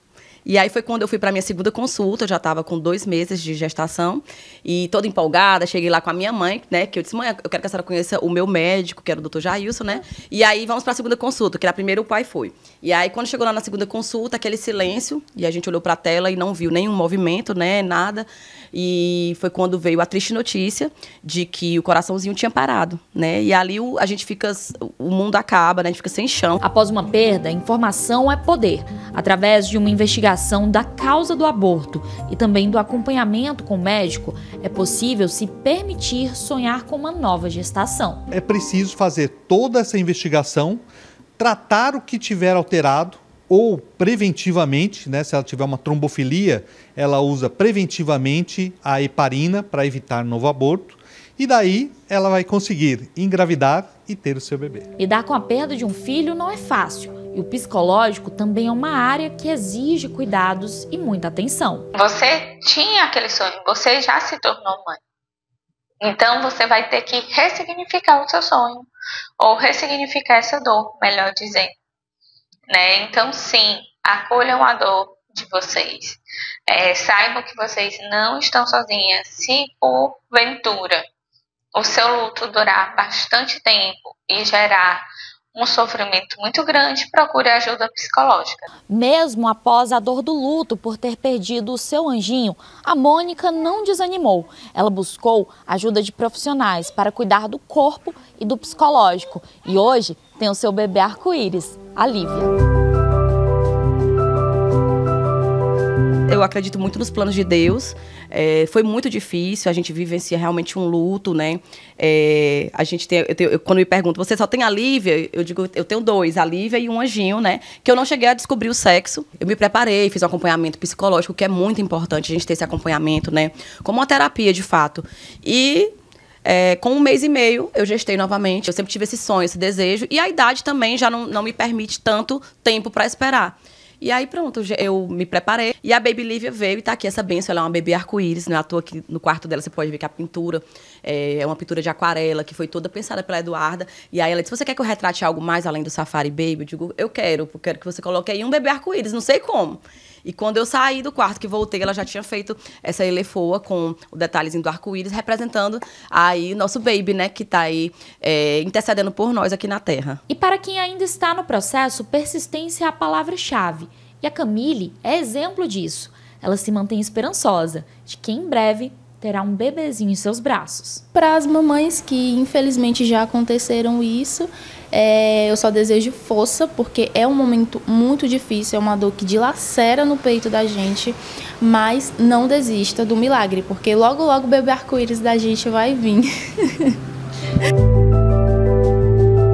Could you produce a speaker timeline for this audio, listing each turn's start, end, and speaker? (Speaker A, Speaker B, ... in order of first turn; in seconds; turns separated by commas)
Speaker A: 0.4-26.6, Speaker B: 26.6-38.2, Speaker C: 38.3-40.8, Speaker C: 41.4-54.9, Speaker B: 55.0-61.9, Speaker D: 61.9-65.0, Speaker D: 66.0-68.9, Speaker D: 69.4-71.7, Speaker D: 72.7-81.0, Speaker D: 81.7-88.6, Speaker B: 88.9-102.5, Speaker A: 106.3-125.9, Speaker A: 126.4-160.2, Speaker B: 160.3-171.0, Speaker E: 171.1-187.0